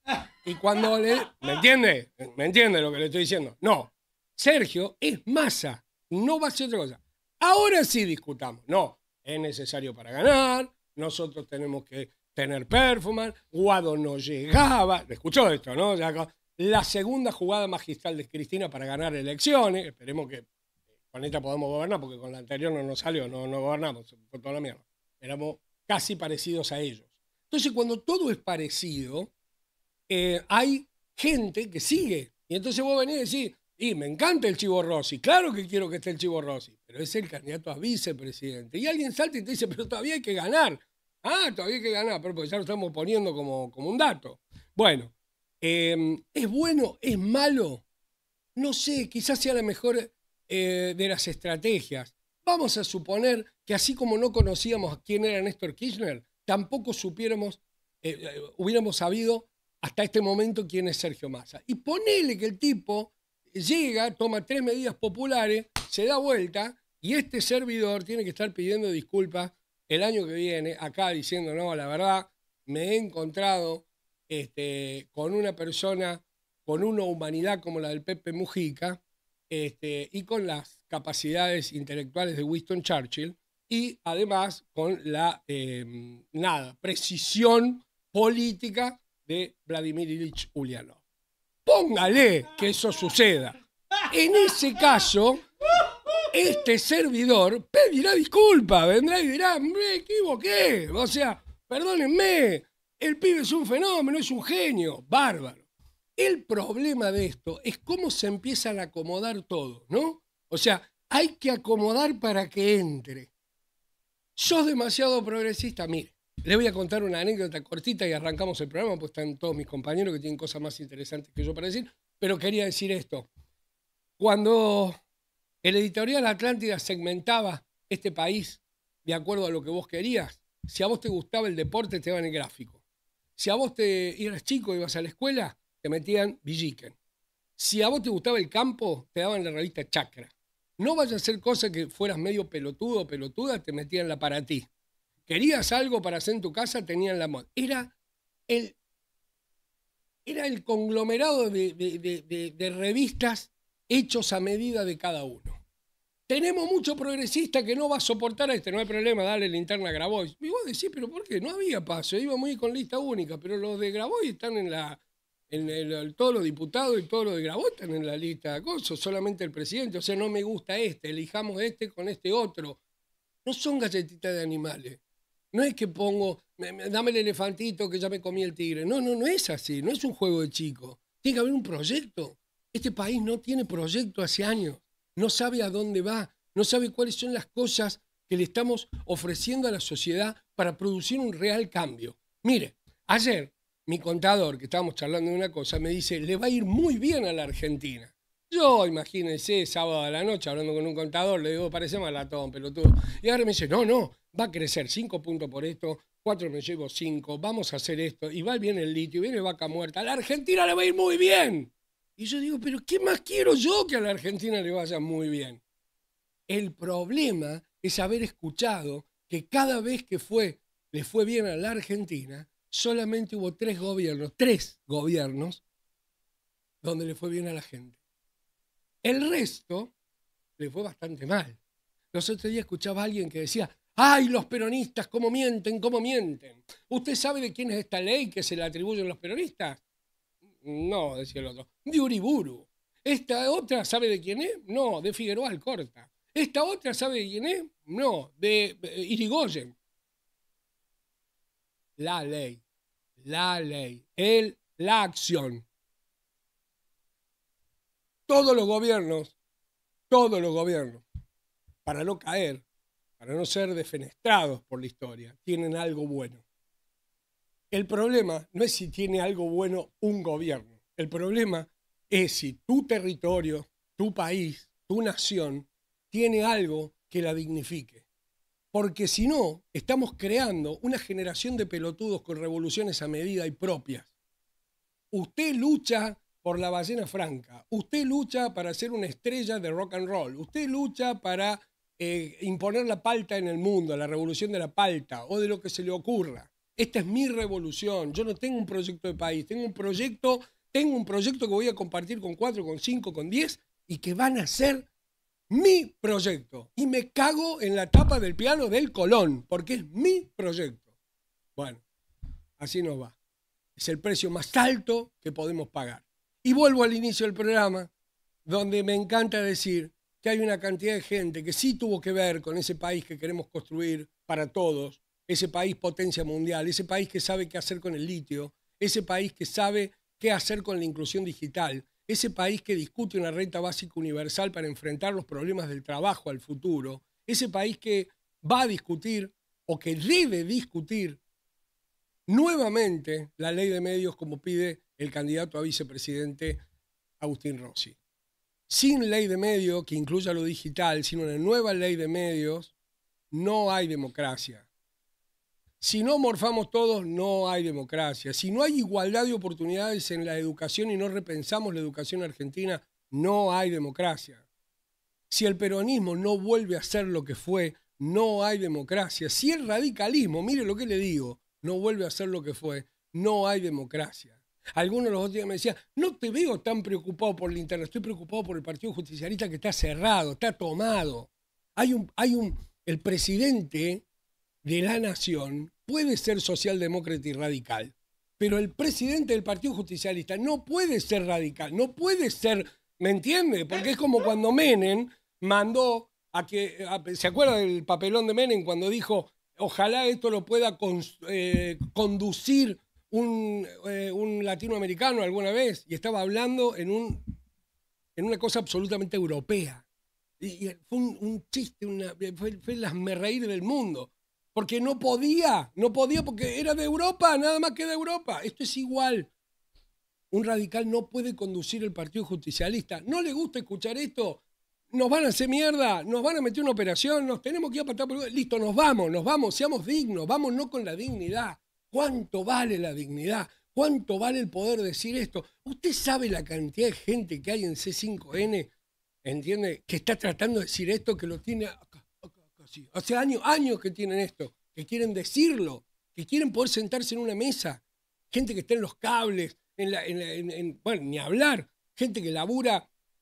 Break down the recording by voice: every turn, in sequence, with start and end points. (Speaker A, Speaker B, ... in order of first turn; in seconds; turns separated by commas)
Speaker A: 0.4-20.5, Speaker A: 21.1-29.3, Speaker A: 30.1-47.9, Speaker A: 48.6-91.0, Speaker A: 91.7-95.4, Speaker A: 96.3-105.7, Speaker A: 106.2-113.3, Speaker A: 114.4-123.3, Speaker A: 124.2-125.0, Speaker A: 125.6-132.8, Speaker A: 133.4-137.0, Speaker A: 137.6-144.7, Speaker A: 145.3-147.9, Speaker A: 148.5-148.8, Speaker A: 150.2-155.6, Speaker A: 156.3-172.8, Speaker A: 173.4-175.0, Speaker A: 175.5-215.6, Speaker A: 216.5-225.6, Speaker A: 226.8-228.0, Speaker A: 229.0-229.9, Speaker A: 230.6-231.6, Speaker A: 232.1-239.8, Speaker A: 240.6-249.8, Speaker A: 252.0-252.6, Speaker A: 253.2-255.7, Speaker A: 258.3-259.4, Speaker A: 260.1-261.0, Speaker A: 261.9-262.6, Speaker A: 263.2-266.4, Speaker A: 267.7-278.1, Speaker A: 278.7-284.1, Speaker A: 285.1-304.9, Speaker A: 305.5-310.9, Speaker A: 311.6-311.8, Speaker A: 312.6-313.2, Speaker A: 313.8-317.9, Speaker A: 318.5-341.2, Speaker A: 342.3-346.6, Speaker A: 347.2-348.0, Speaker A: 348.7-352.8, Speaker A: 353.3-354.7, Speaker A: 355.8-364.4, Speaker A: 365.3-384.1, Speaker A: 384.6-407.2, Speaker A: 408.2-409.9, Speaker A: 410.4-419.3, Speaker A: 420.3-438.7, Speaker A: 439.2-452.9